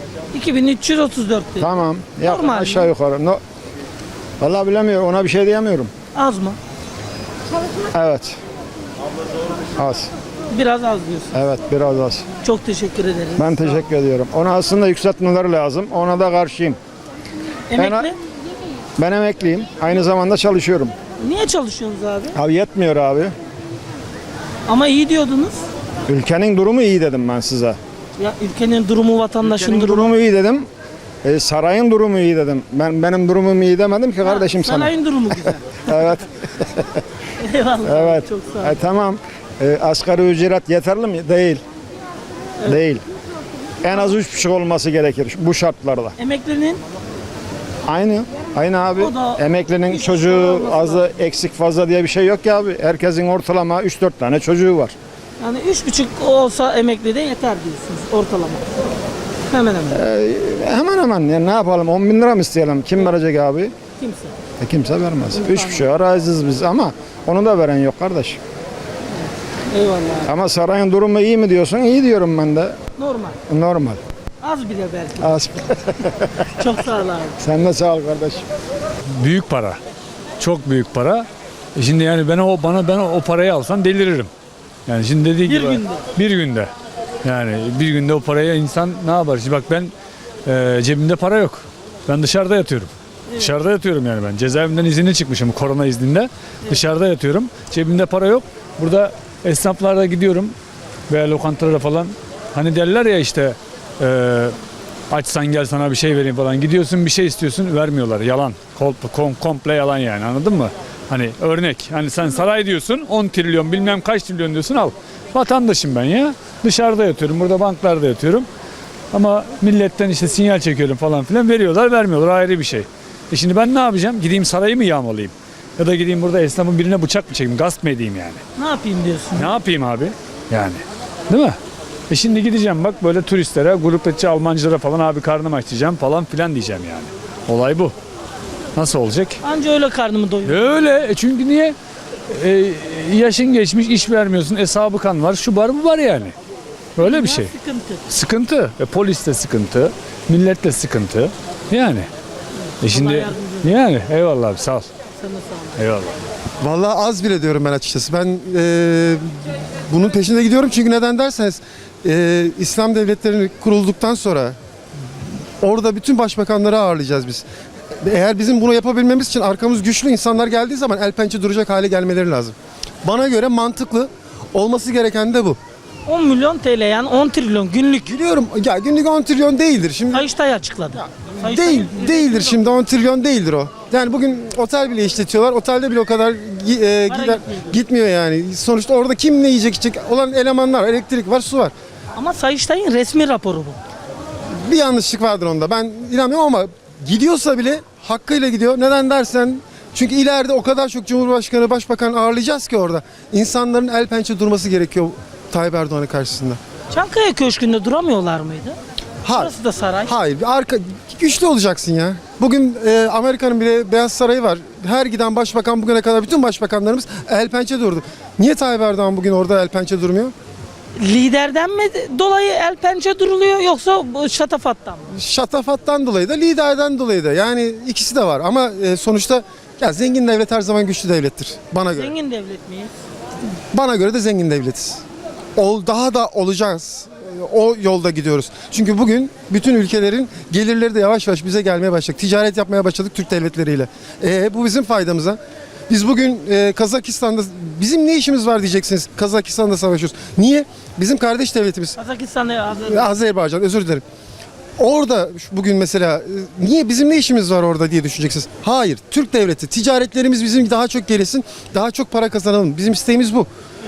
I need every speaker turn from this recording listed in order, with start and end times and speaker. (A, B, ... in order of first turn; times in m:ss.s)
0:00.3-0:01.7 A
0:01.6-0:03.4 B
0:02.2-0:02.9 A
0:04.4-0:05.9 B
0:06.2-0:06.6 A
0:07.9-0:08.4 B
0:09.8-0:10.1 B
0:10.5-0:11.3 A
0:11.3-0:12.2 B
0:12.4-0:13.6 A
0:13.4-0:16.8 B
0:17.7-0:18.2 A
0:17.8-0:18.1 B
0:19.0-0:20.9 B
0:21.2-0:22.3 A
0:22.3-0:23.3 B
0:24.7-0:25.7 A
0:26.1-0:27.8 B
0:28.2-0:30.1 A
0:29.4-0:30.7 B
0:31.2-0:34.9 B
0:34.2-0:36.2 A
0:35.9-0:37.0 B
0:37.4-0:38.7 A
0:37.8-0:41.6 B
0:42.7-0:43.0 B
0:43.8-0:46.2 B
0:46.2-0:46.8 A
0:47.9-0:55.0 B
0:49.0-0:51.0 A
0:55.4-0:58.8 A
0:59.5-1:00.0 A
0:59.9-1:03.7 B
1:04.0-1:04.3 A
1:04.6-1:08.4 B
1:05.4-1:05.8 A
1:09.7-1:10.3 A
1:10.2-1:12.8 B
1:13.0-1:13.4 A
1:13.5-1:14.0 B
1:14.4-1:15.4 A
1:15.2-1:16.3 B
1:16.5-1:17.4 A
1:17.4-1:18.5 B
1:19.2-1:19.8 C
1:20.4-1:24.3 C
1:24.9-1:26.7 C
1:25.4-1:26.0 A
1:27.2-1:29.9 C
1:30.5-1:40.6 C
1:41.1-1:44.6 C
1:45.1-1:58.5 C
1:59.1-2:08.4 C
2:08.6-2:09.5 A
2:09.4-2:11.6 C
2:12.1-2:18.0 C
2:18.8-2:19.4 C
2:19.4-2:21.0 A
2:20.4-2:21.8 C
2:22.3-2:26.3 C
2:27.0-2:27.5 C
2:27.0-2:28.0 A
2:28.1-2:32.1 C
2:32.8-2:34.9 C
2:32.8-2:33.8 A
2:35.2-2:35.8 A
2:35.8-2:36.1 C
2:36.6-2:39.3 D
2:39.9-2:44.6 D
2:45.6-2:47.4 D
2:48.0-2:55.6 D
2:56.1-2:58.1 A
2:58.1-3:00.3 D
3:00.1-3:02.8 A
3:01.4-3:11.7 D
3:07.1-3:07.8 A
3:12.2-3:13.8 A
3:14.6-3:26.6 D
3:26.9-3:28.8 A
3:29.2-3:29.5 D
3:29.3-3:30.1 A
3:30.1-3:40.3 D
3:41.0-3:45.1 A
3:45.1-3:52.2 D
3:51.9-3:52.9 A
3:53.7-3:55.0 D
3:55.6-4:12.0 D
4:12.0-4:13.1 A
4:12.8-4:14.0 D
4:14.8-4:23.5 D